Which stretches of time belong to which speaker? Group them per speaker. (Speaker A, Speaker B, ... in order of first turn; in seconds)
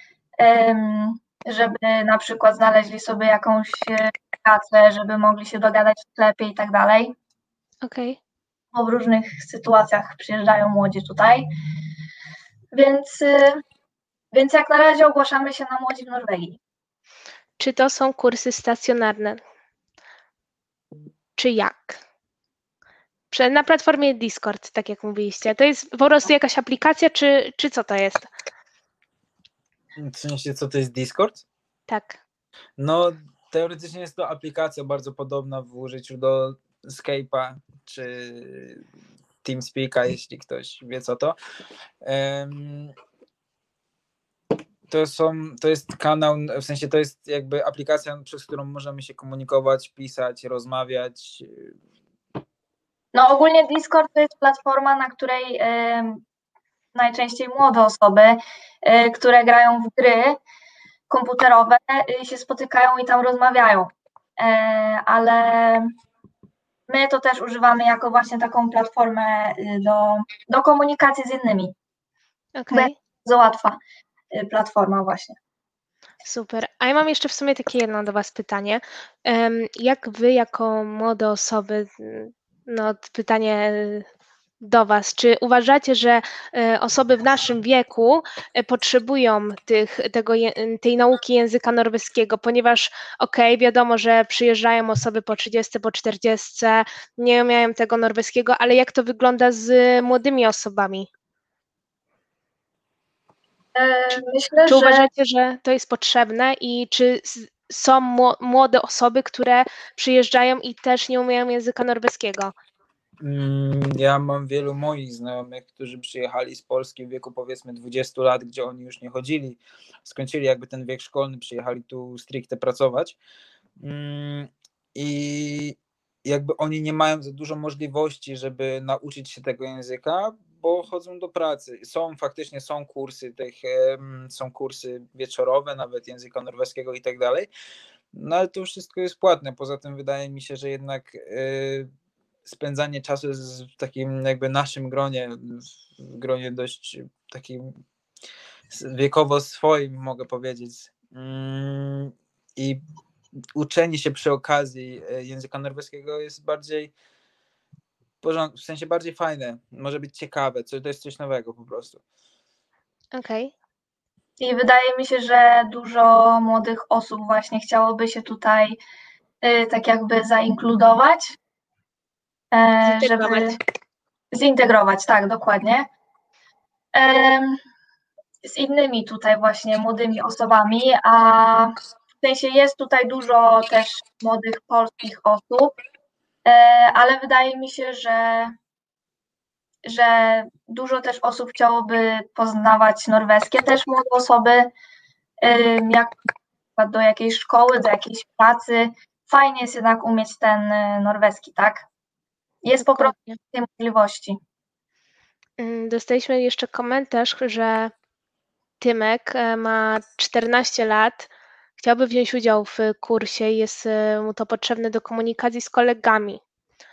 Speaker A: 0.4-7.1, 8.7-11.5, 12.7-13.6, 14.3-16.6, 53.1-56.2, 56.9-60.4, 61.1-65.9, 66.9-71.7, 72.7-73.8, 74.3-75.3, 103.7-105.0, 164.4-168.8, 169.4-171.4, 172.5-173.6, 174.3-175.9, 176.9-177.6, 178.4-185.7, 186.4-188.5, 189.8-194.7, 195.4-201.8, 202.6-204.4
Speaker B: 7.8-8.2, 17.6-19.4, 21.4-22.0, 23.3-28.3, 31.9-32.2, 72.6-72.9, 76.2-84.0, 84.6-101.1, 104.1-112.5, 163.1-163.5, 172.8-173.6, 202.8-203.4, 205.6-207.9, 208.8-216.4
Speaker C: 29.9-31.4, 32.8-38.8, 39.4-41.4, 42.0-42.9, 44.9-51.7, 113.2-123.2, 123.8-137.5, 138.1-141.9, 142.4-147.7, 148.7-152.8, 153.5-156.9, 158.2-162.0